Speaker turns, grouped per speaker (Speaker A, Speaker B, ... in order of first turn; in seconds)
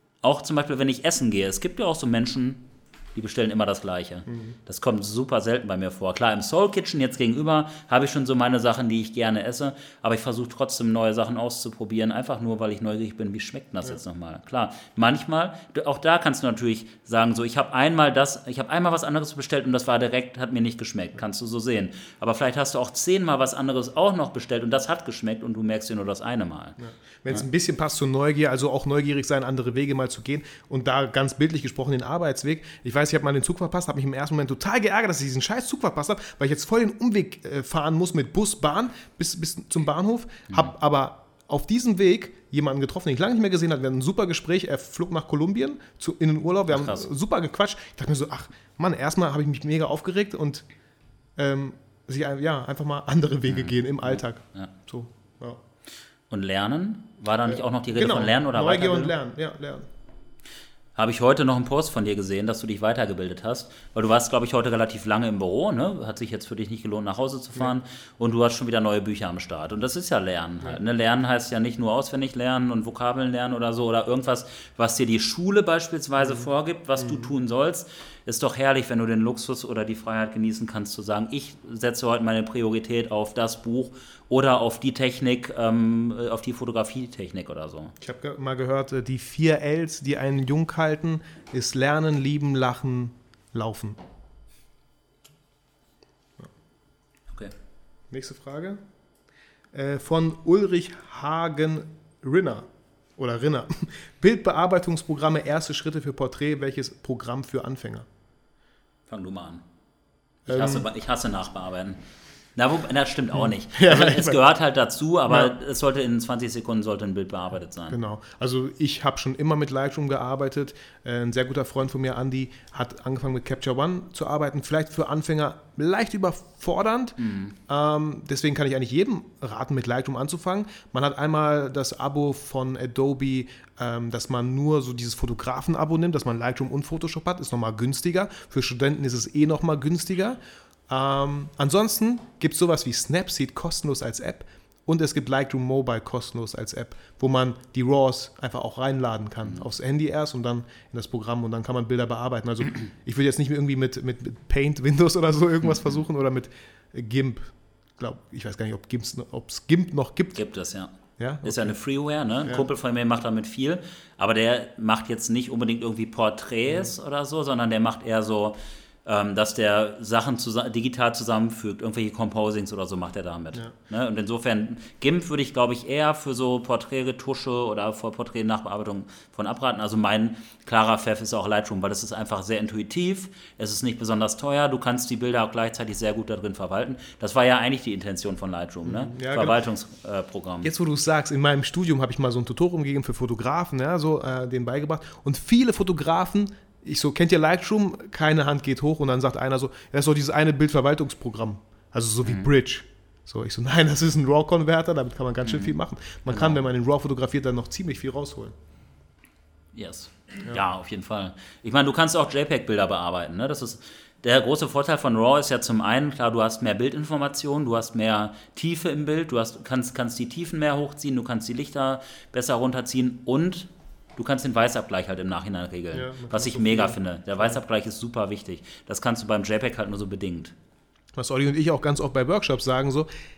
Speaker A: 0.2-26.8, 46.7-47.0, 53.5-54.7, 56.3-59.1, 60.9-87.9, 109.1-109.6, 110.5-112.0, 112.5-118.0, 127.2-127.5, 155.6-156.0, 160.3-190.7, 205.4-205.7, 206.2-206.6, 209.7-230.5
Speaker B: 4.3-4.6, 26.8-50.6, 51.4-55.6, 57.4-59.9, 76.2-77.3, 88.0-94.0, 98.1-98.8, 99.7-108.1, 110.5-110.8, 113.3-114.4, 117.9-160.4, 161.2-162.7, 166.7-166.9, 188.8-189.6, 190.6-208.5, 225.9-227.6, 231.2-233.1